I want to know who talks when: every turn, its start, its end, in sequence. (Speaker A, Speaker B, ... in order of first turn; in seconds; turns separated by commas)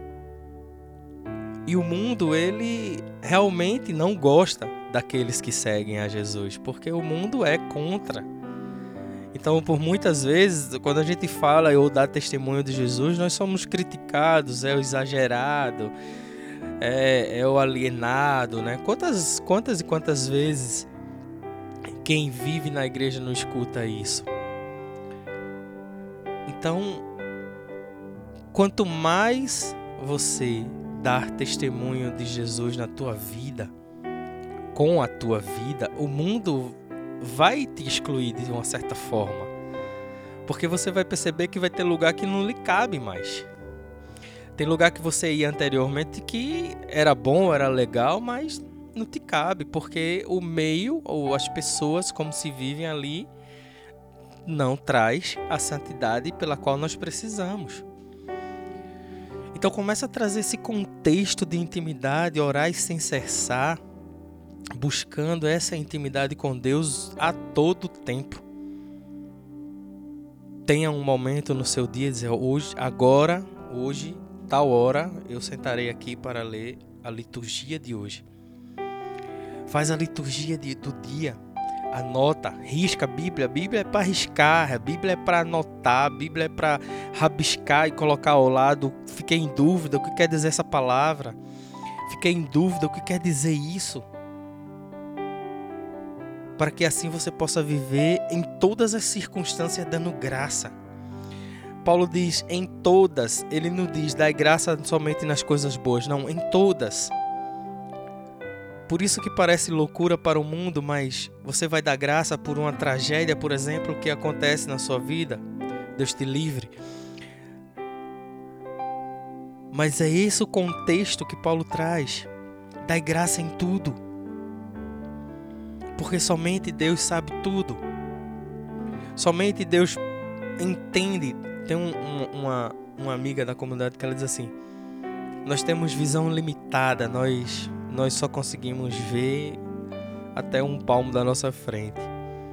Speaker A: 1.7-8.3, Speaker A: 9.3-15.9, Speaker A: 16.8-20.9, Speaker A: 22.0-24.3, Speaker A: 26.5-27.0, Speaker A: 28.5-33.7, Speaker A: 34.7-39.5, Speaker A: 40.5-43.5, Speaker A: 44.6-53.3, Speaker A: 54.5-57.9, Speaker A: 59.5-63.8, Speaker A: 64.8-68.4, Speaker A: 70.7-78.2, Speaker A: 79.7-81.4, Speaker A: 81.9-91.4, Speaker A: 92.1-94.1, Speaker A: 96.6-100.8, Speaker A: 101.8-107.1, Speaker A: 108.9-115.4, Speaker A: 116.0-116.7, Speaker A: 119.7-122.3, Speaker A: 122.9-124.0, Speaker A: 126.0-127.8, Speaker A: 129.2-130.0, Speaker A: 130.6-134.5, Speaker A: 135.4-139.6, Speaker A: 140.3-142.1